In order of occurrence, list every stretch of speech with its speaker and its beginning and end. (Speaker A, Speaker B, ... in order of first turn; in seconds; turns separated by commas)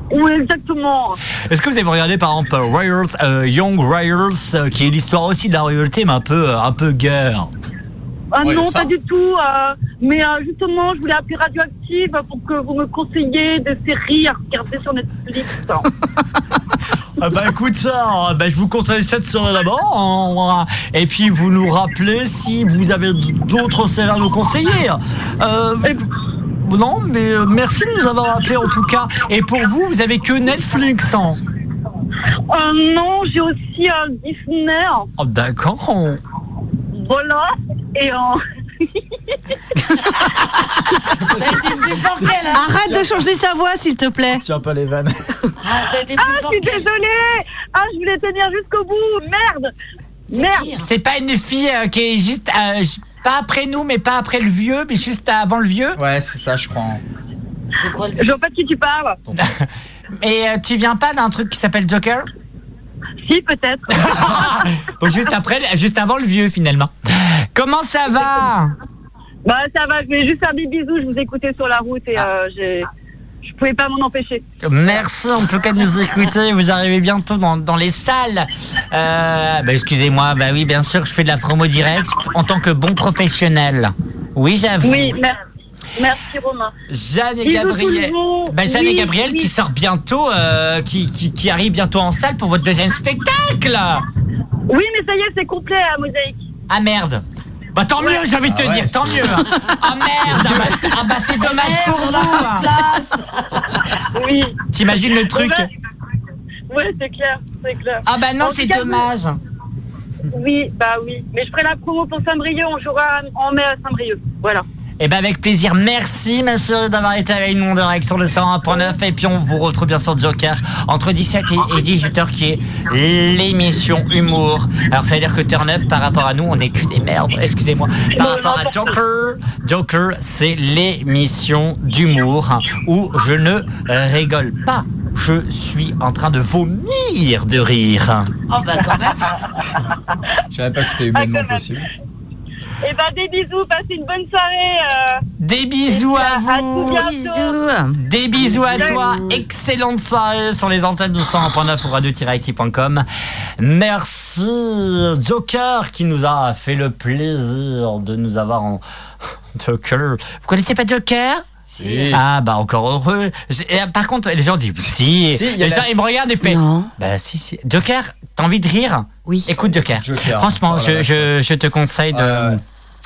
Speaker A: 0.1-1.2, Speaker B: 1.4-7.5, Speaker A: 8.3-15.9, Speaker C: 8.4-8.9, Speaker B: 17.2-26.1, Speaker B: 26.6-31.4, Speaker A: 32.5-35.1, Speaker B: 35.2-36.2, Speaker A: 36.9-39.4, Speaker C: 41.0-42.0, Speaker D: 41.3-43.0, Speaker E: 42.5-44.4, Speaker C: 44.3-45.3, Speaker D: 45.6-46.9, Speaker A: 46.1-49.7, Speaker A: 50.3-50.7, Speaker D: 50.3-50.8, Speaker B: 50.8-56.0, Speaker C: 56.0-57.0, Speaker D: 57.8-58.4, Speaker A: 58.2-59.2, Speaker B: 59.4-59.7, Speaker B: 60.2-62.3, Speaker A: 63.2-64.6, Speaker B: 64.0-68.7, Speaker A: 69.4-72.9, Speaker A: 73.4-74.4, Speaker B: 74.6-85.2, Speaker A: 84.8-85.4, Speaker A: 86.0-86.7, Speaker B: 86.9-94.1, Speaker A: 87.4-89.5, Speaker A: 94.7-96.4, Speaker B: 96.7-102.7, Speaker C: 98.4-99.5, Speaker C: 100.2-100.8, Speaker D: 101.4-104.0, Speaker A: 104.1-104.6, Speaker B: 104.7-105.7, Speaker A: 105.2-105.7, Speaker A: 106.7-109.0, Speaker B: 108.0-109.4, Speaker A: 110.3-114.6, Speaker B: 115.0-138.3, Speaker A: 128.1-128.9, Speaker D: 138.5-139.6, Speaker C: 140.5-141.9, Speaker A: 141.1-141.6, Speaker A: 142.8-145.2, Speaker B: 145.4-147.1, Speaker A: 145.9-147.6, Speaker E: 146.9-148.0, Speaker B: 148.0-153.1, Speaker A: 148.4-149.2, Speaker B: 153.6-158.8, Speaker B: 159.5-161.4, Speaker D: 161.7-162.2, Speaker C: 161.8-162.2, Speaker B: 162.1-172.6, Speaker C: 165.3-165.9, Speaker E: 166.4-166.9, Speaker C: 169.9-171.3, Speaker C: 172.1-172.6